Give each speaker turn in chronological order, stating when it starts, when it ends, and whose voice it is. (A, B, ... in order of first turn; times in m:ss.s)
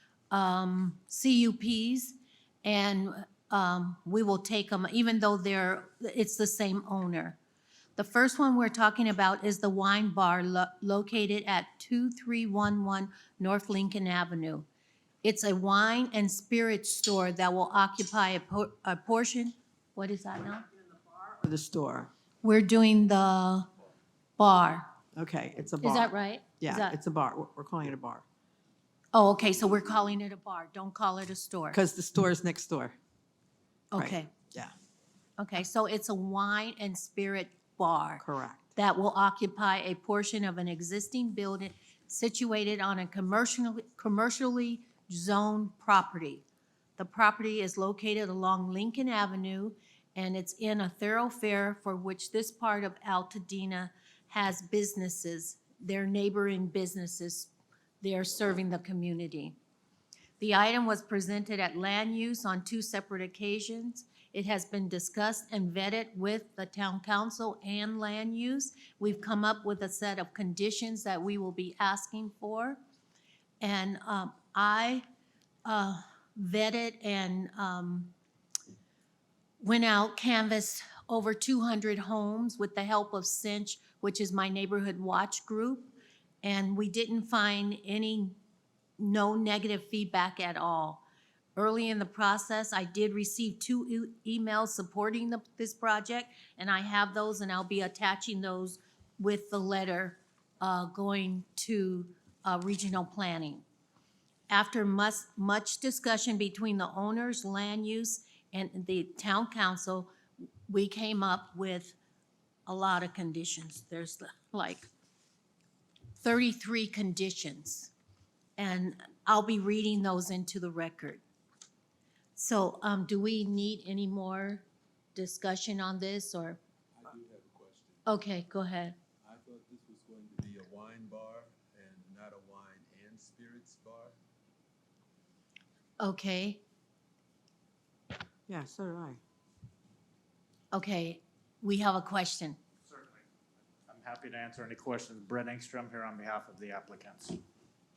0:00.3-0:07.4 A
0:08.0-0:14.7 A
0:15.2-0:20.6 A
0:21.1-0:22.1 B
0:22.4-0:23.7 A
0:24.4-0:24.9 A
0:25.1-0:28.2 B
0:25.8-0:27.0 A
0:29.1-0:31.8 A
0:31.7-0:33.0 B
0:33.9-0:34.3 A
0:34.0-0:34.7 B
0:35.4-0:46.4 A
0:38.2-0:38.7 B
0:47.0-0:59.6 A
1:00.4-1:12.8 A
1:13.6-1:15.0 A
1:15.6-1:18.1 A
1:19.6-1:25.9 A
1:26.4-1:28.4 A
1:29.0-1:31.0 A
1:31.6-1:43.6 A
1:44.5-1:50.1 A
1:50.7-1:52.0 A
1:52.7-1:54.9 A
1:56.2-1:57.9 A
1:58.6-2:01.2 A
2:02.4-2:06.6 A
2:07.0-2:08.1 C
2:08.0-2:09.0 A
2:09.2-2:14.1 C
2:16.0-2:16.6 A
2:18.5-2:19.2 B
2:20.7-2:22.6 A
2:22.8-2:23.2 D
2:23.9-2:27.4 D